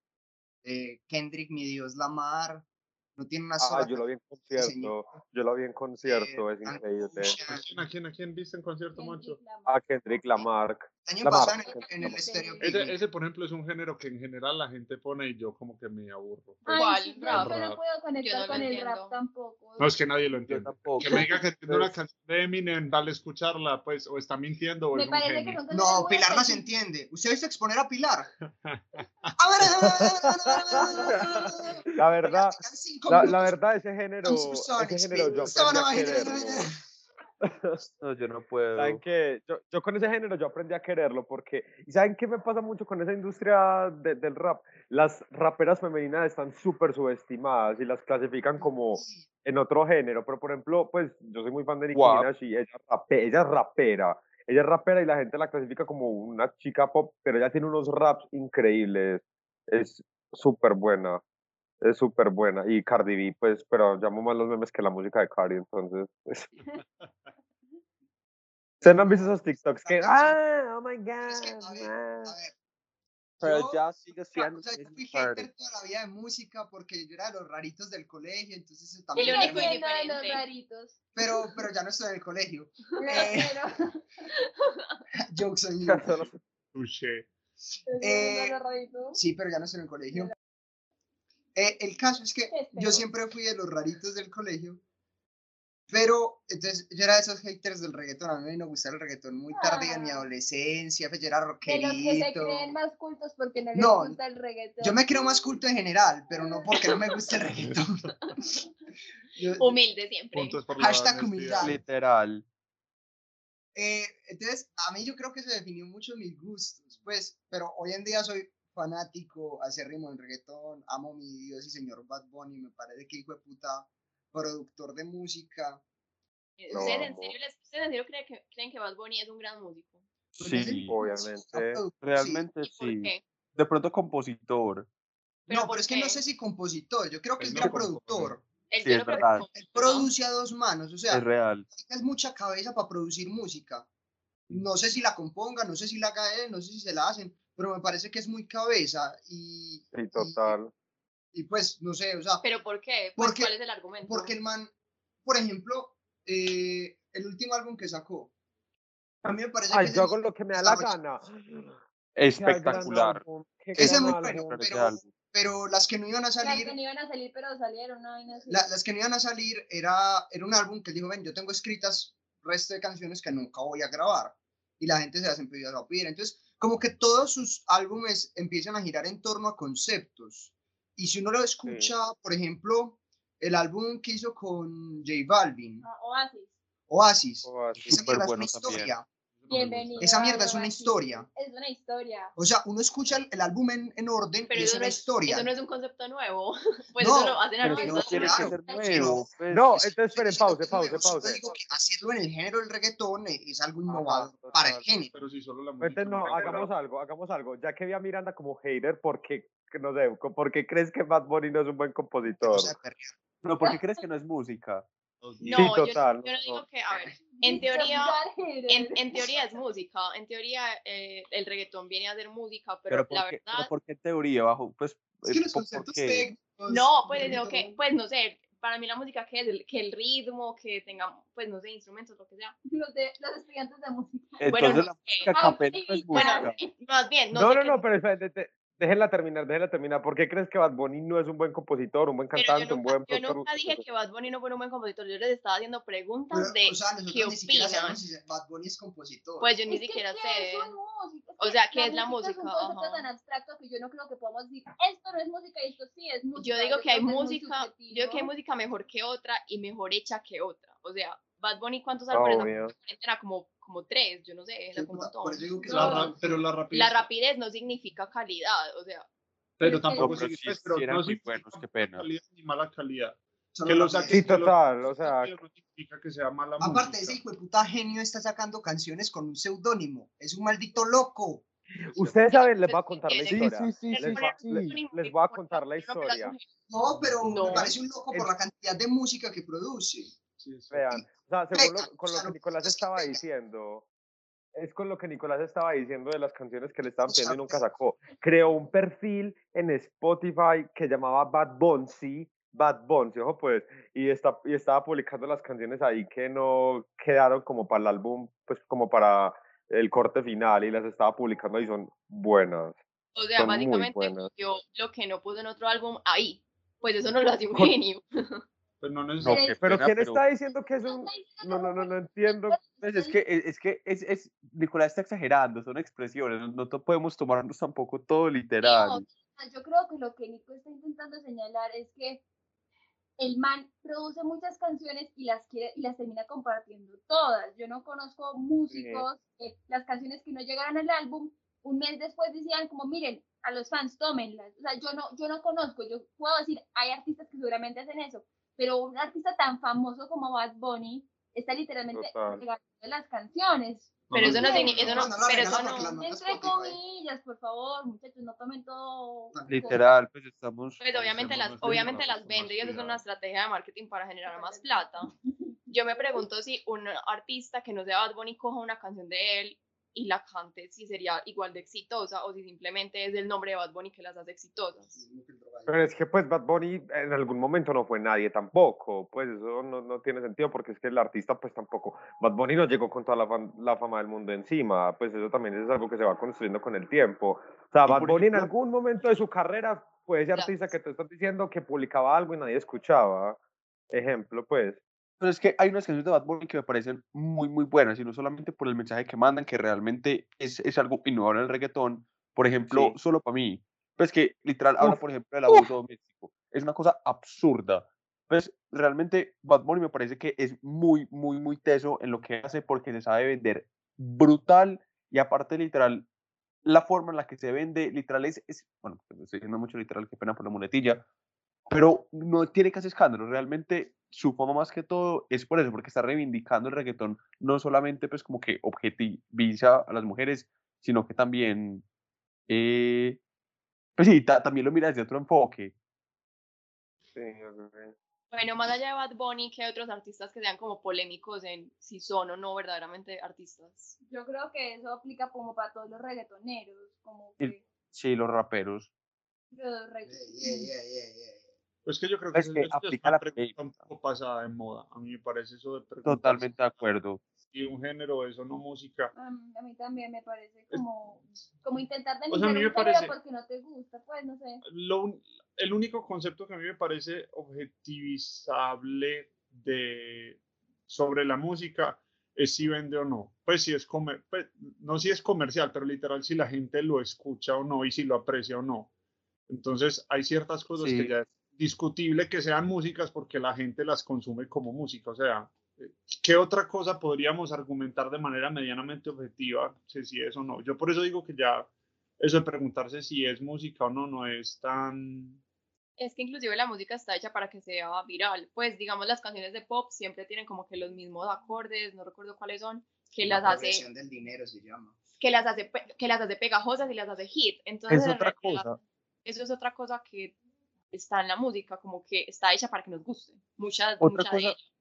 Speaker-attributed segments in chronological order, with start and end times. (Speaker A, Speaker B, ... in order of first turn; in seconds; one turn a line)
Speaker A: 0.6-2.6
Speaker A: 3.2-5.0
Speaker B: 3.6-7.4
Speaker A: 6.0-7.8
Speaker C: 7.3-9.4
Speaker D: 8.9-9.8
Speaker B: 9.7-12.2
Speaker A: 11.0-13.0
Speaker D: 11.4-12.7
Speaker C: 12.6-17.8
Speaker D: 16.6-19.9
Speaker E: 16.7-17.5
Speaker E: 18.2-19.1
Speaker C: 19.8-25.6
Speaker F: 20.5-21.9
Speaker D: 24.9-26.7
Speaker A: 25.7-28.3
Speaker C: 28.4-29.3
Speaker A: 29.4-33.5
Speaker B: 29.8-36.7
Speaker F: 30.9-31.4
Speaker A: 34.2-36.8
Speaker C: 35.4-36.1
Speaker B: 37.4-37.8
Speaker F: 38.0-39.0
Speaker B: 38.7-61.2
Speaker A: 48.6-49.3
Speaker F: 51.9-52.3
Speaker B: 61.8-66.5
Speaker A: 68.8-70.4
Speaker B: 68.8-72.3
Speaker A: 71.2-72.5
Speaker A: 73.4-79.7
Speaker F: 73.4-75.5
Speaker D: 79.1-81.3
Speaker E: 79.2-80.4
Speaker A: 81.2-83.6
Speaker D: 83.0-84.3
Speaker E: 84.7-85.0
Speaker A: 85.2-86.2
Speaker B: 85.8-86.4
Speaker C: 86.7-87.3
Speaker D: 87.8-89.2
Speaker A: 88.0-88.6
Speaker A: 89.1-90.3
Speaker A: 91.5-94.8
Speaker D: 92.5-93.0
Speaker A: 95.9-102.7
Speaker D: 99.5-100.3
Speaker D: 101.6-105.6
Speaker A: 103.7-104.2
Speaker A: 104.8-108.5
Speaker D: 106.3-106.7
Speaker C: 107.5-107.8
Speaker A: 109.3-109.8
Speaker E: 109.6-110.6
Speaker C: 110.3-111.8
Speaker A: 110.7-111.8
Speaker F: 111.6-112.4
Speaker A: 113.7-125.8
Speaker E: 126.6-130.0
Speaker A: 126.7-127.1
Speaker B: 126.7-127.3
Speaker F: 130.3-131.0
Speaker A: 130.4-132.4
Speaker B: 130.9-131.8
Speaker F: 132.0-134.9
Speaker E: 132.6-133.2
Speaker E: 135.5-136.2
Speaker A: 135.5-138.4
Speaker C: 137.4-138.4
Speaker E: 138.7-140.1
Speaker F: 138.8-139.5
Speaker A: 139.5-143.9
Speaker F: 141.1-141.7
Speaker A: 144.5-150.6
Speaker B: 149.9-150.7
Speaker A: 151.3-152.4
Speaker E: 152.4-154.3
Speaker A: 153.2-153.5
Speaker A: 154.0-154.7
Speaker A: 155.2-158.3
Speaker A: 159.2-160.9
Speaker B: 159.7-161.8
Speaker F: 162.2-163.2
Speaker B: 162.3-164.6
Speaker F: 163.7-165.1
Speaker A: 163.8-166.7
Speaker D: 166.4-168.7
Speaker A: 168.5-185.8
Speaker B: 181.7-181.9
Speaker D: 185.8-186.5
Speaker A: 186.9-189.1
Speaker B: 187.4-188.0
Speaker F: 187.7-188.9
Speaker C: 189.4-190.3
Speaker D: 189.5-192.3
Speaker A: 190.0-191.3
Speaker A: 192.3-195.5
Speaker E: 194.5-198.5
Speaker A: 197.0-205.1
Speaker F: 197.6-199.8
Speaker D: 197.6-199.2
Speaker B: 199.5-201.4
Speaker B: 203.9-204.8
Speaker C: 205.1-206.7
Speaker B: 205.8-212.7
Speaker A: 212.4-213.1
Speaker F: 213.4-214.8
Speaker C: 215.2-215.7
Speaker E: 215.4-223.7
Speaker B: 215.5-216.6
Speaker D: 217.4-219.3
Speaker F: 222.9-226.3
Speaker A: 225.3-227.7
Speaker E: 226.7-232.6
Speaker D: 232.7-236.5
Speaker F: 234.4-236.6
Speaker E: 234.5-235.3
Speaker E: 236.1-237.8
Speaker B: 237.3-243.8
Speaker E: 242.3-248.0
Speaker A: 246.3-249.5
Speaker E: 249.4-250.7
Speaker D: 249.7-258.3
Speaker E: 251.4-253.1
Speaker E: 256.4-265.4
Speaker B: 262.1-262.7
Speaker A: 264.7-266.4
Speaker D: 265.6-266.1
Speaker C: 265.7-267.1
Speaker E: 266.7-269.1
Speaker C: 269.6-277.2
Speaker D: 269.6-270.2
Speaker F: 269.9-272.1
Speaker A: 273.5-274.2
Speaker B: 274.1-275.3
Speaker A: 276.6-281.4
Speaker B: 281.9-286.3
Speaker E: 282.3-286.4
Speaker F: 283.3-284.8
Speaker A: 286.7-290.1
Speaker C: 286.9-287.7
Speaker E: 287.3-287.7
Speaker C: 290.4-290.9
Speaker B: 290.7-293.8
Speaker A: 290.9-293.2
Speaker B: 294.5-312.8
Speaker A: 297.1-297.6
Speaker E: 313.1-318.4
Speaker B: 313.4-314.3
Speaker C: 318.8-319.6
Speaker F: 319.2-320.2
Speaker D: 319.3-319.6
Speaker B: 319.6-322.6
Speaker D: 320.8-323.2
Speaker F: 322.8-329.0
Speaker E: 328.6-329.0
Speaker D: 329.0-332.2
Speaker D: 333.2-354.8
Speaker B: 338.7-339.1
Speaker B: 351.9-352.4
Speaker C: 354.1-355.2
Speaker E: 354.1-355.9
Speaker A: 354.2-356.8
Speaker D: 355.5-359.8
Speaker A: 359.3-359.8
Speaker F: 359.5-360.8
Speaker E: 360.8-365.1
Speaker C: 360.9-363.0
Speaker D: 364.2-365.5
Speaker E: 365.7-375.0
Speaker A: 374.9-375.8
Speaker B: 375.7-393.4
Speaker F: 387.9-388.5
Speaker B: 393.9-394.8
Speaker F: 395.2-416.0
Speaker B: 402.7-403.0
Speaker F: 416.6-421.0
Speaker F: 421.7-431.8
Speaker F: 432.5-433.2
Speaker F: 434.0-435.7
Speaker B: 437.1-437.9
Speaker E: 438.3-443.9
Speaker D: 444.1-447.6
Speaker F: 447.4-448.9
Speaker D: 449.5-450.7
Speaker A: 450.0-451.4
Speaker C: 451.8-456.6
Speaker F: 452.3-453.8
Speaker F: 456.0-457.2
Speaker C: 457.4-459.1
Speaker D: 459.1-464.6
Speaker C: 462.3-463.1
Speaker C: 464.6-478.9
Speaker C: 479.5-495.4
Speaker F: 480.8-481.1
Speaker E: 496.0-503.8
Speaker A: 503.2-505.0
Speaker E: 505.2-508.7
Speaker F: 507.9-508.8
Speaker E: 509.2-510.3
Speaker E: 510.9-514.6
Speaker F: 514.0-514.5